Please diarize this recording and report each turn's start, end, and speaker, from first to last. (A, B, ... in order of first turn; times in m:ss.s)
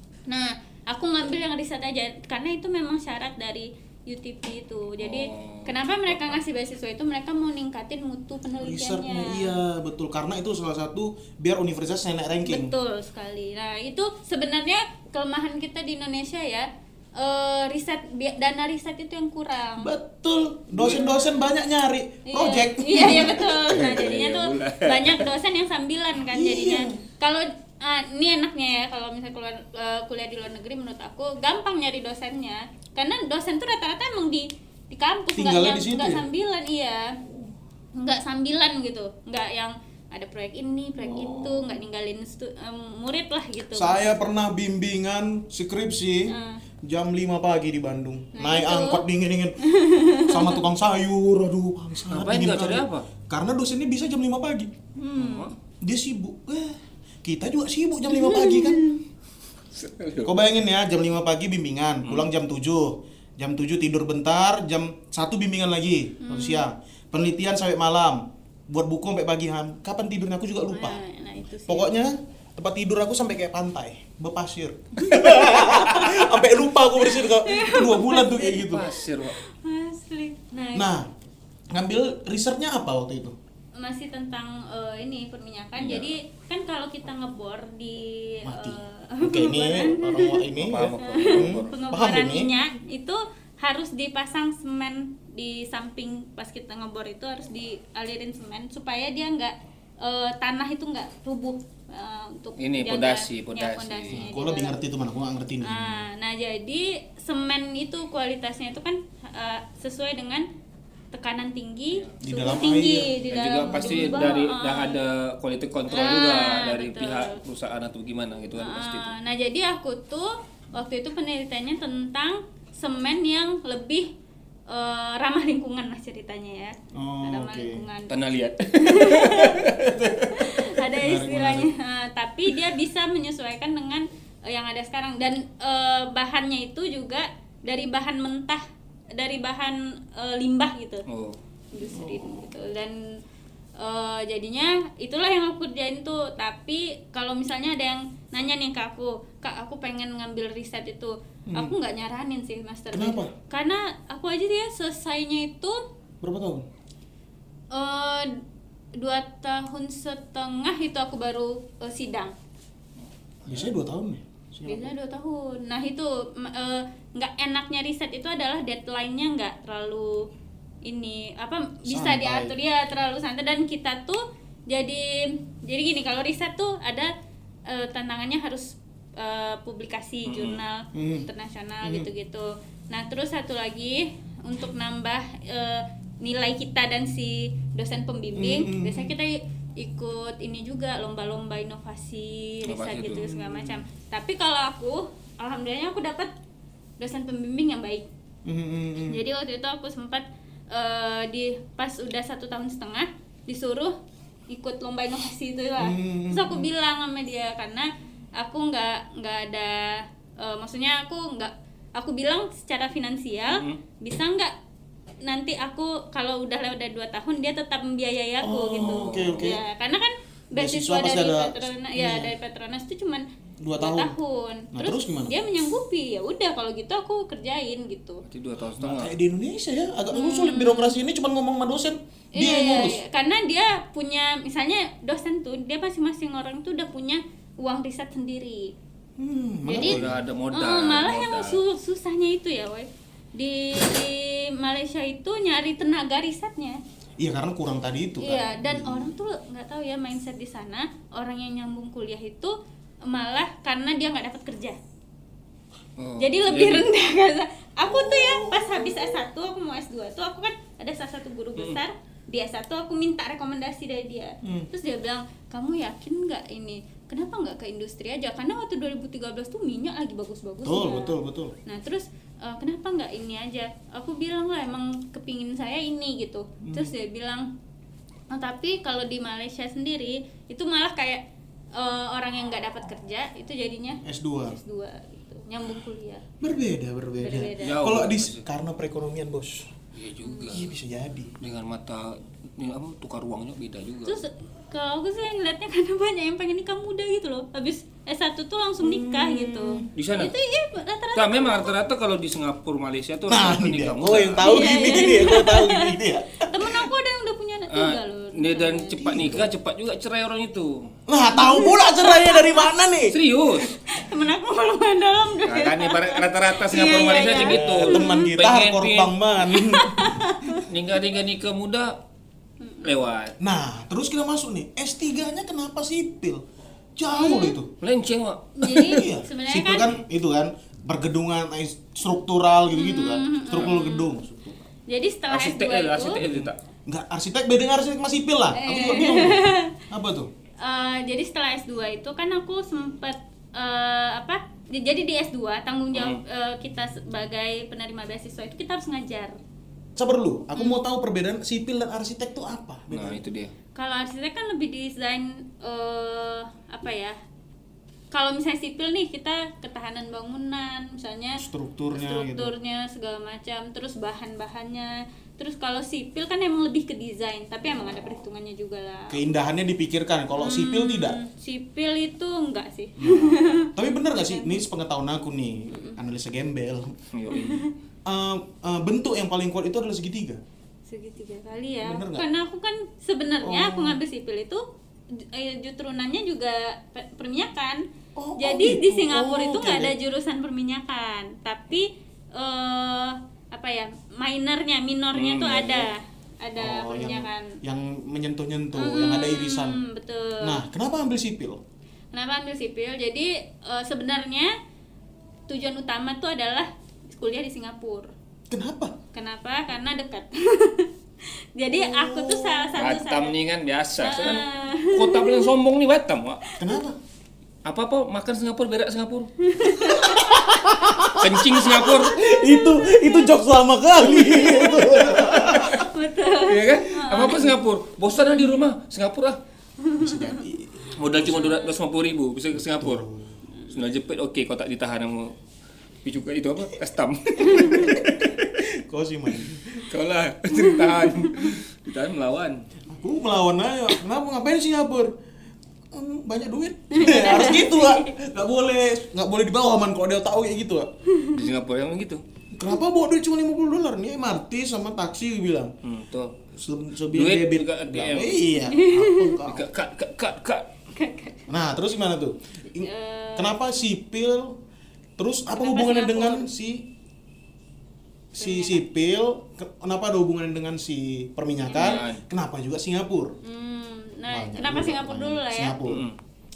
0:00.3-0:09.5 A
0:05.0-0:06.4 B
0:08.6-0:12.7 C
0:12.5-0:19.9 A
0:19.8-0:23.5 C
0:20.7-0:21.0 B
0:21.0-0:21.4 A
0:22.3-0:37.2 A
0:23.2-0:25.2 B
0:26.3-0:27.0 C
0:35.4-0:36.2 C
0:38.0-0:44.0 A
0:41.0-0:41.8 C
0:43.7-0:46.3 C
0:46.3-0:46.6 A
0:46.8-0:49.6 C
0:48.3-0:49.0 A
0:49.6-0:50.6 A
0:50.2-0:54.7 C
0:52.1-0:53.1 B
0:55.0-0:55.5 A
0:55.2-0:55.5 B
0:55.8-0:58.9 C
0:58.1-0:59.0 A
0:59.7-1:00.3 B
1:00.2-1:11.0 C
1:06.2-1:06.6 A
1:10.7-1:11.9 A
1:11.7-1:18.9 C
1:15.1-1:16.1 A
1:15.6-1:15.9 B
1:17.0-1:20.9 A
1:18.5-1:19.4 B
1:20.7-1:21.1 C
1:21.7-1:23.4 C
1:23.8-1:44.7 A
1:25.8-1:26.1 B
1:28.4-1:32.5 C
1:30.6-1:31.7 B
1:42.6-1:44.2 B
1:44.1-1:46.0 C
1:45.6-1:50.4 A
1:51.1-1:55.0 A
1:52.2-1:53.1 C
1:53.3-1:59.1 B
1:53.6-1:54.4 C
1:55.9-1:57.4 A
1:58.6-2:04.1 A
2:04.7-2:08.1 A
2:06.9-2:07.8 C
2:08.1-2:10.4 B
2:08.7-2:09.6 A
2:10.4-2:21.0 A
2:10.9-2:11.7 C
2:21.1-2:21.4 B
2:21.7-2:23.0 A
2:21.9-2:22.4 C
2:23.8-2:35.8 A
2:31.5-2:31.7 C
2:32.9-2:33.3 C
2:36.2-2:36.6 C
2:37.7-2:38.4 A
2:39.0-2:42.3 A
2:43.4-2:43.7 B
2:43.5-2:44.9 C
2:44.6-2:50.3 A
2:50.8-2:57.1 A
2:51.9-2:52.5 C
2:57.7-3:16.3 A
3:00.2-3:00.6 B
3:00.9-3:01.3 C
3:01.8-3:02.1 C
3:08.4-3:09.1 C
3:12.6-3:13.3 B
3:13.2-3:13.8 C
3:17.0-3:18.1 A
3:18.4-3:19.2 C
3:19.0-3:24.0 A
3:24.5-3:34.5 A
3:25.8-3:26.7 C
3:33.5-3:33.8 B
3:35.2-3:43.2 A
3:38.4-3:39.6 C
3:38.8-3:39.5 B
3:40.5-3:42.3 C
3:43.6-3:44.1 C
3:43.8-3:48.2 A
3:44.7-3:45.3 C
3:48.3-3:49.1 B
3:48.8-3:53.0 C
3:50.1-3:50.9 A
3:52.3-3:58.7 A
3:59.2-4:00.2 C
3:59.6-4:00.0 A
3:59.8-4:01.6 B
4:00.5-4:06.8 A
4:07.2-4:09.1 C
4:08.2-4:12.5 A
4:13.0-4:14.8 A
4:16.0-4:16.9 B
4:16.2-4:37.5 A
4:17.8-4:19.1 C
4:30.6-4:31.5 C
4:36.6-4:36.9 C
4:38.3-4:41.2 A
4:41.7-4:46.2 A
4:44.0-4:44.6 C
4:46.4-4:49.7 C
4:47.2-4:47.8 A
4:47.6-4:48.4 B
4:49.9-4:50.7 B
4:50.2-4:50.6 A
4:50.5-4:51.3 C
4:51.4-4:54.2 B
4:54.0-5:01.7 A
4:58.8-4:59.9 C
4:59.9-5:00.3 B
5:01.1-5:05.0 B
5:03.3-5:06.9 C
5:04.4-5:08.9 A
5:07.7-5:10.9 B
5:09.0-5:09.5 C
5:11.1-5:13.2 C
5:11.3-5:12.7 A
5:13.1-5:13.7 B
5:13.7-5:18.2 A
5:15.4-5:19.1 B
5:16.8-5:20.2 C
5:19.4-5:20.6 A
5:20.6-5:22.0 B
5:22.6-5:23.0 A
5:22.8-5:23.4 B
5:23.4-5:26.4 C
5:27.0-5:27.7 C
5:27.1-5:27.6 A
5:27.8-5:29.0 B
5:28.6-5:29.9 A
5:28.9-5:34.6 C
5:32.7-5:34.1 A
5:34.9-5:36.2 A
5:35.3-5:36.6 B
5:36.2-5:40.3 C
5:38.5-5:39.7 A
5:40.6-5:49.4 A
5:45.9-5:46.2 B
5:50.0-5:53.2 C
5:52.9-5:53.5 B
5:53.8-5:57.2 A
5:58.1-6:09.2 A
6:01.4-6:02.5 C
6:09.1-6:11.2 C
6:10.4-6:14.6 A
6:13.0-6:17.0 C
6:15.7-6:16.0 A
6:17.1-6:17.7 B
6:17.3-6:17.7 A
6:18.0-6:20.4 C
6:20.9-6:27.8 A
6:21.8-6:22.3 C
6:23.4-6:24.0 C
6:28.2-6:29.9 C
6:28.4-6:37.6 A
6:35.1-6:35.9 B
6:36.6-6:39.8 C
6:38.7-6:40.6 A
6:40.4-6:41.6 C
6:42.1-6:44.5 A
6:45.5-6:48.1 A
6:48.5-6:48.9 C
6:49.1-6:50.9 A
6:51.5-6:53.4 A
6:51.7-6:52.7 C
6:52.8-6:56.4 B
6:54.0-6:55.5 A
6:56.6-6:57.0 C
6:57.6-6:59.3 B
6:59.4-7:00.6 A
7:00.0-7:05.9 C
7:01.1-7:02.1 B
7:02.1-7:03.4 A
7:04.0-7:05.0 A
7:05.2-7:05.8 B
7:05.6-7:07.5 A
7:06.5-7:09.4 B
7:09.8-7:10.3 A
7:10.0-7:11.5 C
7:11.0-7:13.0 B
7:11.2-7:11.8 A
7:12.8-7:13.3 C
7:13.7-7:15.3 B
7:16.0-7:18.6 B
7:17.4-7:17.8 A
7:17.5-7:18.0 C
7:18.6-7:19.8 C
7:19.8-7:22.6 B
7:20.6-7:21.5 A
7:22.9-7:25.1 C
7:25.9-7:30.9 C
7:26.9-7:28.1 A
7:31.1-7:31.4 A
7:31.3-7:32.2 B
7:32.5-7:35.7 C
7:35.8-7:36.4 B
7:36.5-7:39.6 C
7:37.1-7:38.4 B
7:38.6-7:39.3 A
7:39.4-7:40.7 B
7:40.9-7:41.5 A
7:41.5-7:44.6 C
7:42.8-7:43.5 A
7:45.2-7:46.9 C
7:45.5-7:46.5 A
7:48.3-7:53.3 C
7:48.4-7:48.8 A
7:51.7-7:52.0 A
7:51.7-7:52.2 B
7:53.4-7:55.8 A
7:54.3-7:56.0 C
7:55.8-7:56.1 B